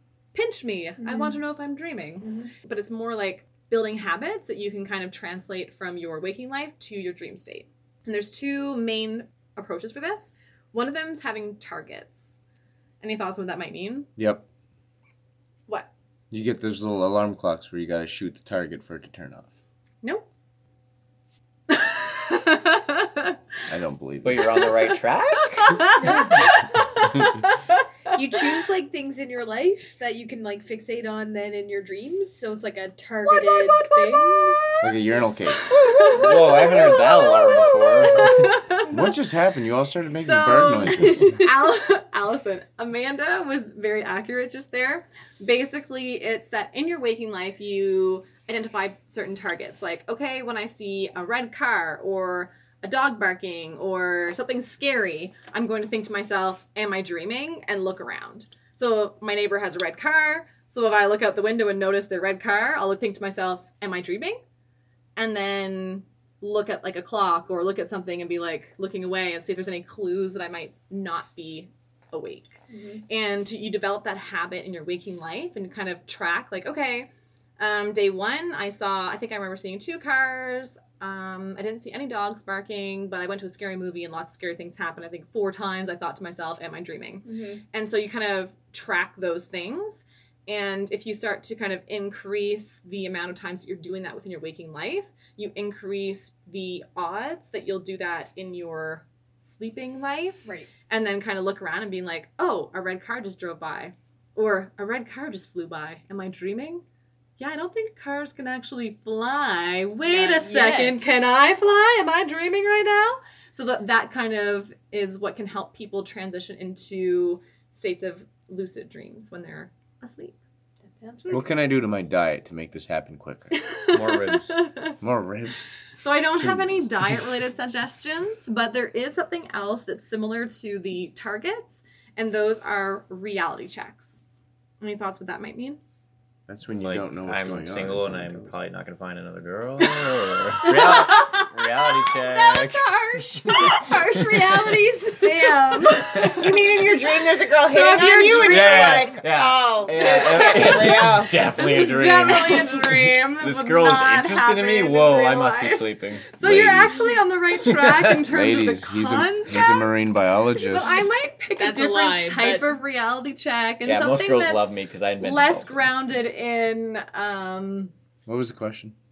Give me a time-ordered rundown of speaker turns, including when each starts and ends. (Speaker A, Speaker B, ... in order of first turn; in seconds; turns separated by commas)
Speaker A: 0.3-12.4, Speaker B: 1.0-1.4, Speaker A: 13.0-14.1, Speaker C: 14.2-14.4, Speaker C: 16.3-19.5, Speaker A: 21.7-23.4, Speaker C: 23.7-24.4, Speaker D: 24.2-25.8, Speaker A: 25.6-27.8, Speaker B: 26.0-26.4, Speaker B: 28.1-34.7, Speaker A: 33.3-39.1, Speaker C: 34.8-36.0, Speaker D: 36.1-38.5, Speaker C: 38.9-41.5, Speaker A: 40.2-64.4, Speaker A: 65.2-72.6, Speaker B: 72.7-73.0, Speaker A: 73.1-106.8, Speaker B: 87.2-87.6, Speaker A: 107.4-120.3, Speaker B: 110.0-111.1, Speaker B: 120.8-121.6, Speaker C: 121.3-123.6, Speaker A: 123.5-125.0, Speaker D: 123.9-124.6, Speaker C: 125.0-125.8, Speaker A: 126.0-134.2, Speaker C: 126.4-127.2, Speaker A: 134.8-135.8, Speaker C: 136.5-138.5, Speaker D: 136.8-143.8, Speaker B: 140.6-146.4, Speaker A: 145.1-146.3, Speaker E: 146.3-151.3, Speaker A: 147.7-149.1, Speaker B: 147.9-148.3, Speaker D: 148.4-157.0, Speaker B: 150.2-150.8, Speaker A: 151.5-159.9, Speaker C: 156.4-156.9, Speaker D: 157.7-158.1, Speaker C: 158.2-161.1, Speaker A: 160.6-167.9, Speaker B: 161.5-162.7, Speaker D: 163.8-165.9, Speaker C: 168.2-168.9